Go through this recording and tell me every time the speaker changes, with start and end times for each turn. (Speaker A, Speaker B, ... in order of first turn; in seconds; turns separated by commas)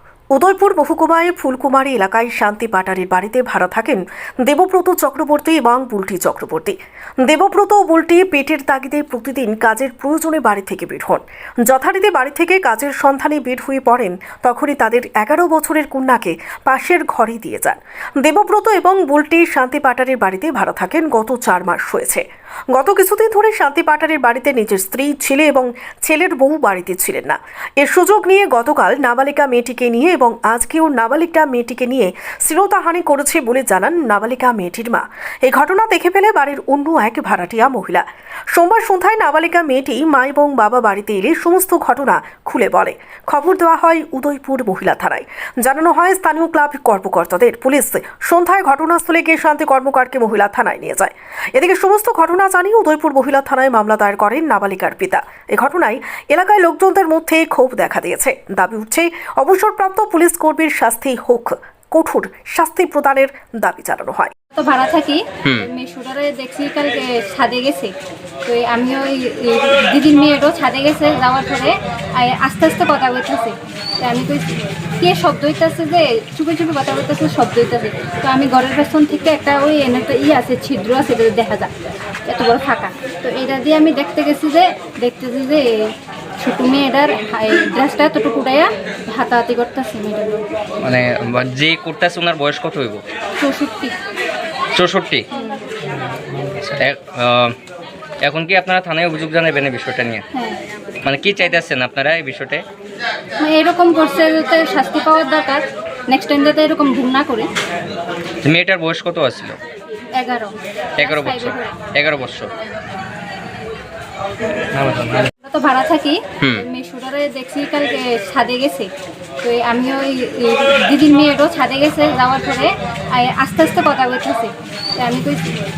Speaker A: 0.3-64.3, Speaker B: 64.6-67.9, Speaker C: 65.4-65.7, Speaker B: 68.5-74.5, Speaker B: 75.0-81.7, Speaker B: 82.3-85.7, Speaker B: 86.4-90.4, Speaker C: 90.8-93.0, Speaker B: 93.4-94.0, Speaker C: 94.8-95.3, Speaker B: 95.3-95.7, Speaker C: 96.5-97.6, Speaker C: 98.2-100.3, Speaker B: 100.3-100.6, Speaker C: 101.0-102.6, Speaker B: 103.4-107.5, Speaker C: 108.4-109.6, Speaker B: 110.2-111.8, Speaker C: 111.0-112.5, Speaker C: 114.8-115.3, Speaker B: 115.5-118.9, Speaker B: 119.4-125.4